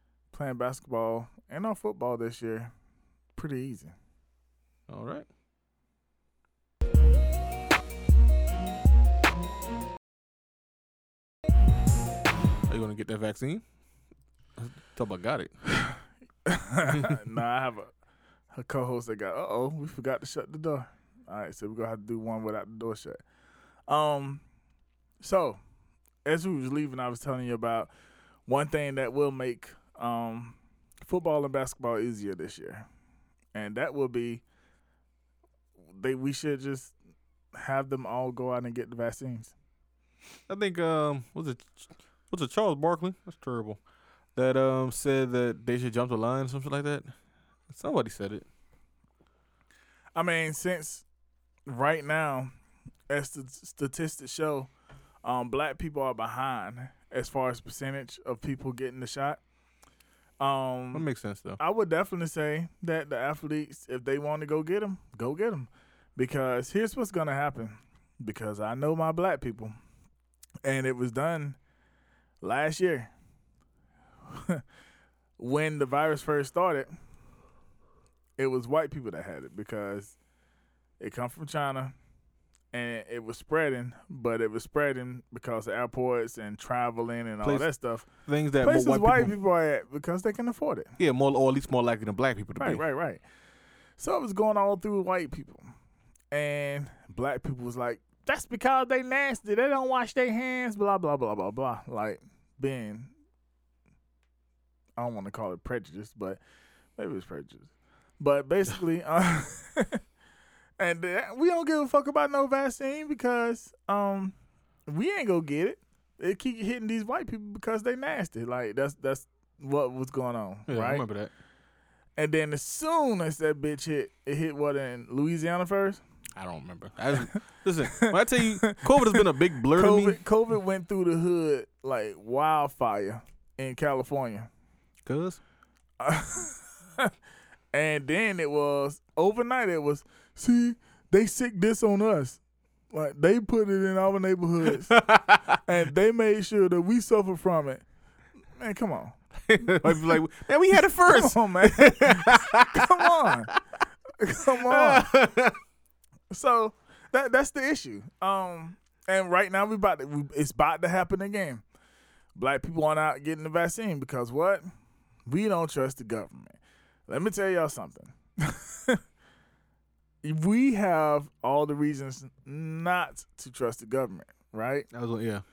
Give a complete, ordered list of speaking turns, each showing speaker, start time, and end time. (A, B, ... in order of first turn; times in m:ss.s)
0:00.3-0:02.7 A
0:03.3-0:03.9 A
0:04.9-0:05.3 B
0:12.7-0:13.6 B
0:14.6-0:15.5 B
0:16.4-0:17.9 A
0:16.9-0:17.2 B
0:18.5-0:23.2 A
0:23.9-0:24.4 A
0:25.2-0:25.6 A
0:26.2-0:27.9 A
0:28.5-0:32.9 A
0:33.5-0:34.4 A
0:36.0-0:36.9 A
0:37.5-0:39.5 A
0:40.5-0:43.8 B
0:44.3-0:47.1 B
0:47.7-0:48.4 B
0:50.1-0:51.0 A
0:51.7-0:52.5 A
0:53.1-0:54.7 A
0:55.2-0:59.4 A
1:00.4-1:01.0 A
1:00.9-1:01.6 B
1:01.6-1:09.7 A
1:10.6-1:11.6 A
1:12.4-1:13.1 A
1:14.3-1:14.6 A
1:15.4-1:16.9 A
1:18.4-1:20.2 A
1:21.0-1:21.9 A
1:22.7-1:28.1 A
1:27.4-1:29.3 B
1:28.6-1:30.9 A
1:31.0-1:32.8 B
1:32.6-1:33.2 A
1:34.0-1:35.6 A
1:36.3-1:43.1 A
1:45.0-1:46.4 A
1:47.0-1:50.0 A
1:50.8-1:54.3 A
1:54.9-2:01.0 A
2:00.7-2:01.3 B
2:02.2-2:06.0 A
2:06.4-2:10.2 B
2:07.9-2:14.5 A
2:15.0-2:15.4 B
2:16.0-2:17.1 A
2:17.7-2:22.4 A
2:22.9-2:27.8 A
2:24.7-2:25.6 B
2:28.6-2:29.2 A
2:29.4-2:33.5 B
2:31.0-2:33.5 A
2:34.2-2:35.1 A
2:34.5-2:35.6 B
2:36.3-2:41.6 A
2:42.4-2:44.6 A
2:45.3-2:49.0 A
2:50.2-2:54.9 A
2:54.9-2:55.4 B